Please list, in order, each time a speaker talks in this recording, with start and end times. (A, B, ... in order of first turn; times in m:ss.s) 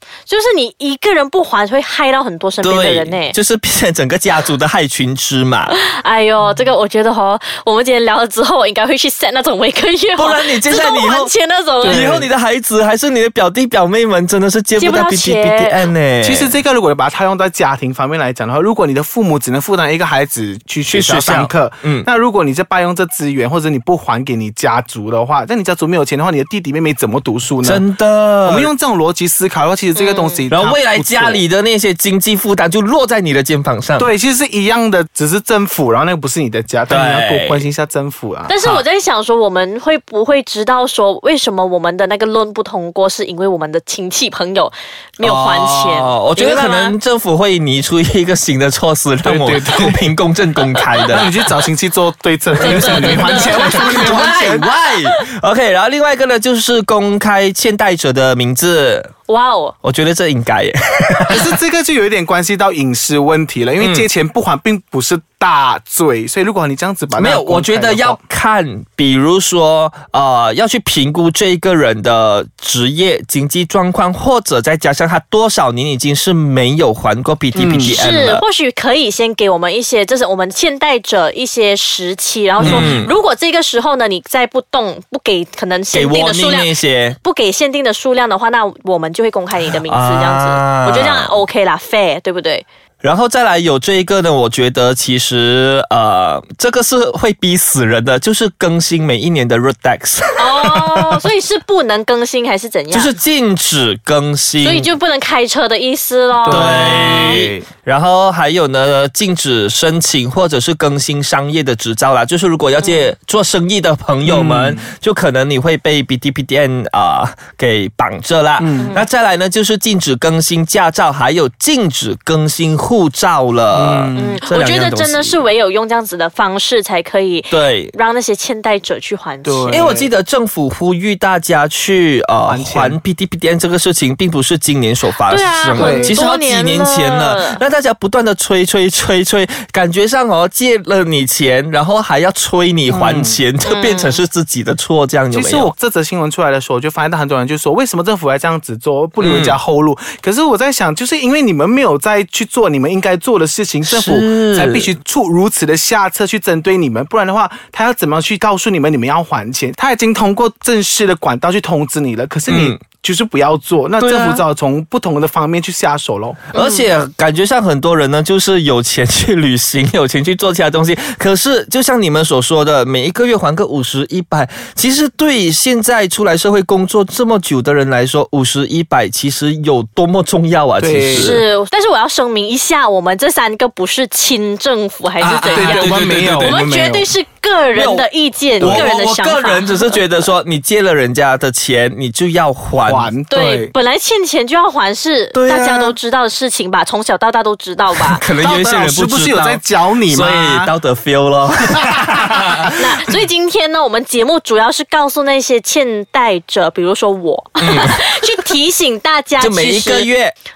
0:00.3-0:03.4 A
0:02.6-0:05.7 B
0:05.7-0:12.1 A
0:10.2-0:11.3 B
0:11.8-0:12.3 C
0:11.8-0:16.6 B
0:14.8-0:15.8 A
0:16.2-0:27.8 C
0:20.9-0:22.1 B
0:27.6-0:28.7 B
0:28.4-0:31.4 C
0:29.9-0:30.4 A
0:30.5-0:34.1 B
0:34.0-0:38.5 C
0:36.9-0:37.6 B
0:38.5-0:46.9 A
0:45.2-0:51.3 B
0:49.2-0:50.0 C
0:51.0-0:54.7 C
0:52.6-0:59.1 B
0:52.6-0:54.3 A
0:59.3-0:59.7 A
0:59.8-1:01.4 B
1:01.3-1:08.2 C
1:03.8-1:04.1 B
1:07.2-1:18.4 B
1:17.5-1:18.0 C
1:17.8-1:32.6 A
1:22.6-1:23.0 C
1:22.6-1:23.1 B
1:25.9-1:27.2 B
1:29.8-1:31.3 B
1:33.0-1:41.2 B
1:40.4-1:43.1 A
1:42.9-1:44.9 B
1:44.6-1:47.5 A
1:46.4-1:47.7 C
1:46.5-2:05.4 B
1:52.8-1:53.1 A
1:54.2-1:54.9 C
1:58.6-1:58.9 C
1:58.8-1:59.1 A
2:03.7-2:04.4 C
2:04.1-2:09.9 A
2:07.5-2:07.9 B
2:09.4-2:10.1 C
2:09.7-2:25.7 B
2:12.4-2:13.0 C
2:15.3-2:17.6 A
2:15.8-2:16.2 C
2:22.9-2:23.4 C
2:23.6-2:24.2 A
2:25.3-2:46.4 C
2:29.2-2:29.6 B
2:33.8-2:34.9 B
2:42.5-2:42.8 B
2:44.0-2:44.4 B
2:46.5-2:46.9 A
2:46.5-3:01.4 B
3:00.8-3:01.4 C
3:01.1-3:10.0 A
3:05.2-3:06.6 B
3:05.5-3:07.1 C
3:07.7-3:08.0 B
3:08.6-3:08.9 C
3:08.6-3:13.1 B
3:12.8-3:13.7 C
3:13.3-3:18.2 A
3:15.3-3:16.0 B
3:18.1-3:22.7 B
3:18.4-3:20.7 C
3:22.6-3:30.1 A
3:27.6-3:28.1 B
3:29.4-3:30.3 B